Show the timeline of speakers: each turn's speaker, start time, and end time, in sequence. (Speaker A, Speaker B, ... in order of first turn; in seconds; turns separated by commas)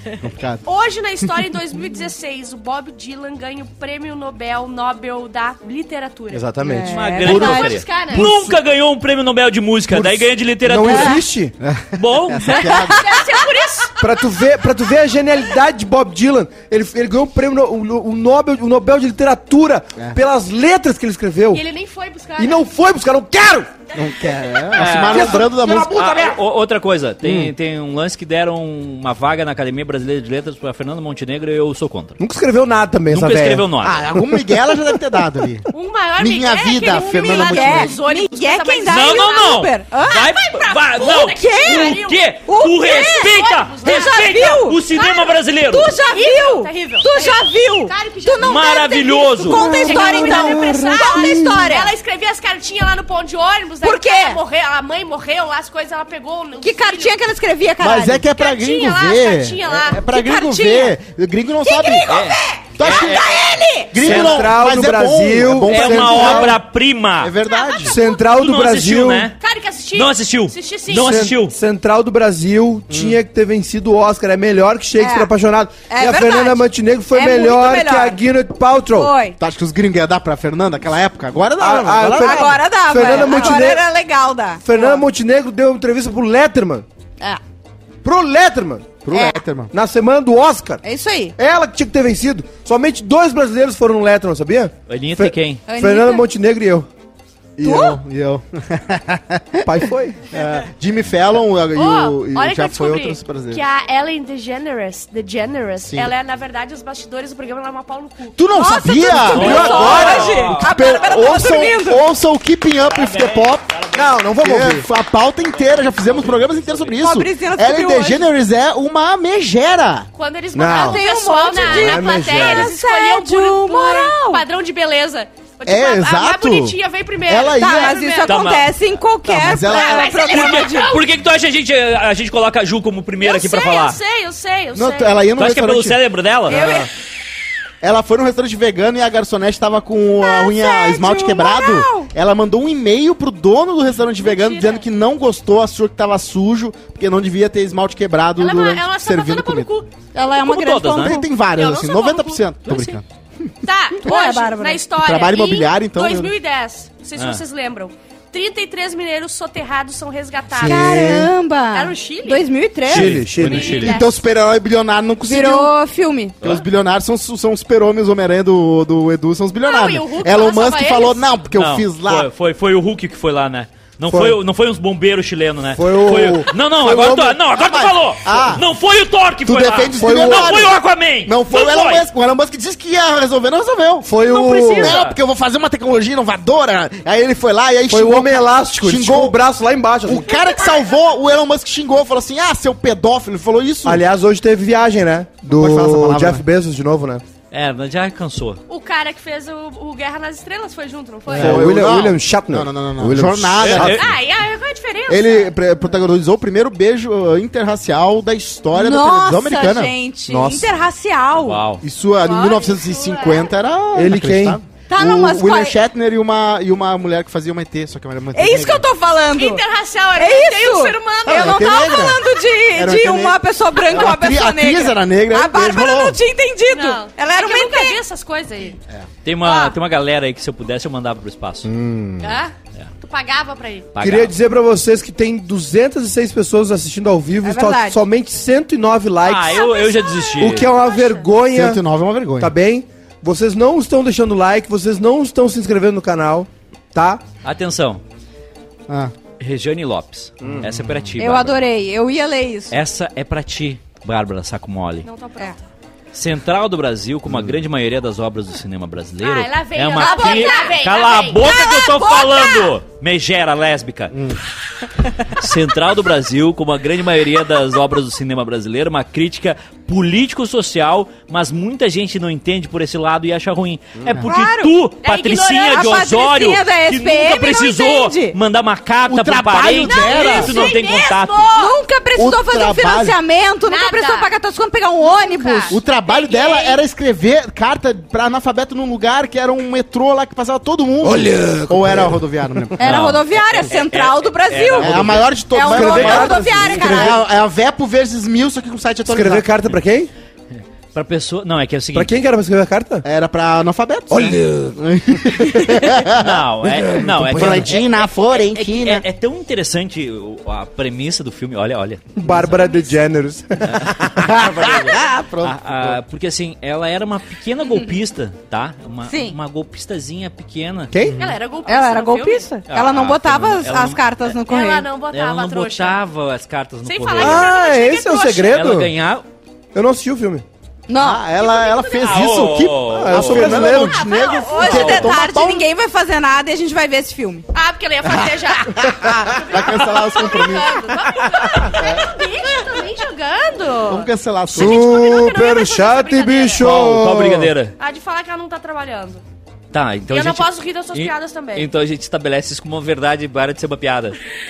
Speaker A: 0.2-0.6, Speaker B: 0.6-6.5, Speaker C: 6.3-8.6, Speaker D: 6.6-7.8, Speaker E: 6.9-11.2, Speaker B: 7.2-8.3, Speaker C: 9.9-11.5, Speaker D: 10.9-11.2, Speaker A: 11.6-13.0, Speaker E: 11.9-12.8, Speaker B: 12.5-14.1, Speaker D: 12.7-13.4, Speaker C: 14.0-21.6, Speaker B: 21.5-22.6, Speaker C: 22.4-23.7, Speaker A: 23.9-26.0, Speaker E: 24.7-32.2, Speaker C: 24.9-26.4, Speaker C: 32.2-33.7, Speaker E: 33.1-34.0, Speaker A: 33.8-35.7, Speaker B: 35.7-57.2, Speaker A: 36.2-37.9, Speaker D: 36.9-40.3, Speaker E: 38.9-46.0, Speaker D: 41.1-44.8, Speaker D: 45.7-51.9, Speaker E: 48.4-49.6, Speaker C: 49.6-51.5, Speaker D: 53.8-54.4, Speaker D: 56.6-58.2, Speaker A: 57.8-62.1, Speaker B: 58.3-60.1, Speaker D: 60.1-61.0, Speaker D: 61.6-63.9, Speaker E: 62.1-63.4, Speaker A: 62.7-63.3, Speaker A: 63.9-66.6, Speaker E: 63.9-64.6, Speaker C: 64.0-66.6, Speaker E: 65.7-67.3, Speaker A: 67.2-68.0, Speaker B: 67.4-68.2, Speaker C: 67.8-69.3, Speaker E: 68.2-69.4, Speaker B: 69.3-71.1, Speaker E: 69.9-71.6, Speaker C: 70.9-79.1, Speaker A: 72.9-73.2, Speaker D: 75.0-75.3, Speaker D: 75.9-78.2, Speaker D: 78.9-79.4, Speaker A: 79.4-82.6, Speaker C: 81.6-83.8, Speaker D: 82.1-85.0, Speaker C: 84.6-86.8, Speaker C: 88.0-89.0, Speaker A: 89.0-89.7, Speaker D: 89.1-89.4, Speaker C: 89.7-90.8, Speaker D: 90.8-91.3, Speaker C: 91.4-96.9, Speaker E: 94.9-95.6, Speaker D: 95.7-96.3, Speaker A: 97.6-103.6, Speaker D: 97.6-98.0, Speaker C: 99.6-100.2, Speaker B: 101.7-108.4, Speaker A: 105.9-106.1, Speaker A: 108.4-113.7, Speaker D: 108.5-112.0, Speaker C: 109.2-110.4, Speaker E: 109.3-110.7, Speaker B: 109.6-110.1, Speaker E: 112.8-114.2, Speaker C: 113.9-114.8, Speaker A: 114.4-120.1, Speaker E: 115.5-117.0, Speaker D: 117.0-118.3, Speaker B: 120.1-128.6, Speaker C: 120.5-121.0, Speaker D: 120.7-124.4, Speaker C: 121.6-122.7, Speaker A: 125.7-128.0, Speaker D: 127.5-131.0, Speaker E: 128.2-128.7, Speaker A: 129.2-130.1, Speaker B: 129.7-131.1, Speaker E: 130.2-134.0, Speaker B: 133.2-135.3, Speaker A: 134.7-136.0, Speaker E: 135.4-136.6, Speaker D: 136.5-136.9, Speaker C: 136.5-136.9, Speaker A: 137.8-149.7, Speaker D: 140.2-142.1, Speaker B: 144.2-144.8, Speaker B: 148.4-149.9, Speaker D: 150.1-151.2, Speaker E: 150.4-151.2, Speaker A: 150.9-153.5, Speaker B: 151.5-152.4, Speaker E: 152.6-153.0, Speaker B: 153.6-161.1, Speaker D: 154.0-154.8, Speaker A: 155.0-156.3, Speaker E: 157.2-157.4, Speaker C: 160.5-161.3, Speaker D: 160.6-163.2, Speaker B: 161.7-162.5, Speaker C: 162.8-164.0, Speaker E: 162.9-164.0, Speaker B: 163.4-164.1, Speaker A: 163.8-165.7, Speaker D: 165.2-166.3, Speaker A: 166.4-172.3, Speaker B: 169.6-171.3, Speaker E: 171.5-182.1, Speaker C: 174.1-174.4, Speaker C: 175.7-177.4, Speaker A: 177.5-178.7, Speaker A: 179.4-184.1, Speaker C: 180.0-180.7, Speaker C: 184.0-185.0, Speaker B: 184.2-184.9, Speaker A: 184.8-189.4, Speaker E: 184.8-185.2, Speaker C: 187.9-190.3, Speaker A: 190.0-194.0, Speaker B: 190.3-190.8, Speaker C: 193.8-197.2, Speaker A: 195.4-196.4, Speaker E: 197.5-198.6, Speaker B: 198.7-201.8, Speaker A: 201.3-204.0, Speaker C: 201.3-204.1, Speaker E: 203.6-204.1, Speaker B: 203.9-205.5, Speaker A: 205.1-209.9, Speaker D: 208.7-211.6, Speaker C: 210.3-210.8, Speaker E: 211.4-211.8, Speaker A: 211.8-218.8, Speaker B: 212.2-213.5, Speaker C: 213.9-214.6, Speaker D: 214.9-215.8, Speaker D: 218.3-219.6, Speaker B: 219.3-221.9, Speaker D: 220.2-228.0, Speaker A: 221.3-222.2, Speaker A: 222.7-226.2, Speaker B: 226.7-228.8, Speaker E: 229.2-231.7, Speaker B: 229.4-229.8, Speaker C: 231.6-232.4, Speaker B: 232.2-233.9, Speaker E: 233.9-234.3, Speaker C: 234.0-239.6, Speaker D: 237.4-238.0, Speaker E: 239.2-240.7, Speaker B: 239.5-241.3, Speaker C: 240.4-241.8, Speaker A: 241.5-242.5, Speaker C: 242.4-247.2, Speaker E: 247.4-248.0, Speaker A: 248.9-249.1, Speaker E: 249.4-251.6, Speaker D: 251.2-252.8, Speaker E: 252.7-255.1, Speaker B: 255.0-255.6, Speaker E: 256.1-264.1, Speaker B: 259.2-261.5, Speaker D: 259.9-260.8, Speaker D: 261.4-262.7, Speaker A: 264.1-264.4, Speaker E: 265.3-281.5, Speaker D: 274.2-274.7, Speaker B: 275.0-276.2, Speaker D: 275.7-278.4, Speaker A: 279.1-280.6, Speaker B: 279.8-281.8, Speaker D: 281.5-285.8, Speaker A: 282.1-283.2, Speaker B: 283.6-284.3, Speaker B: 285.0-286.8, Speaker A: 285.7-292.9, Speaker C: 291.0-292.6, Speaker D: 292.8-297.2, Speaker E: 292.8-295.3, Speaker A: 294.8-299.5, Speaker C: 295.6-297.2, Speaker C: 299.1-300.1, Speaker E: 300.5-302.2, Speaker C: 301.9-303.0, Speaker A: 303.0-306.4, Speaker C: 304.1-305.9, Speaker E: 306.1-312.4, Speaker C: 306.6-307.7, Speaker A: 307.3-309.0, Speaker C: 312.1-314.8, Speaker E: 313.6-320.9, Speaker A: 314.4-316.0, Speaker D: 319.1-319.4, Speaker C: 320.9-321.2, Speaker A: 321.0-321.4, Speaker B: 321.2-322.5, Speaker D: 321.6-324.9, Speaker E: 322.7-324.1, Speaker B: 324.4-326.0, Speaker E: 325.1-327.5, Speaker B: 326.8-328.6, Speaker C: 327.2-328.9, Speaker E: 328.5-329.2, Speaker C: 329.7-330.4, Speaker D: 330.9-331.2, Speaker A: 331.0-335.7, Speaker B: 331.4-332.3, Speaker E: 332.0-333.6, Speaker C: 332.9-334.0, Speaker B: 333.6-335.0, Speaker D: 334.0-337.4, Speaker E: 334.6-335.1, Speaker B: 337.5-346.7, Speaker A: 338.0-340.9, Speaker A: 343.9-345.0, Speaker C: 344.5-347.5, Speaker E: 346.6-347.7, Speaker B: 347.8-349.2, Speaker E: 349.7-354.2, Speaker B: 350.1-351.7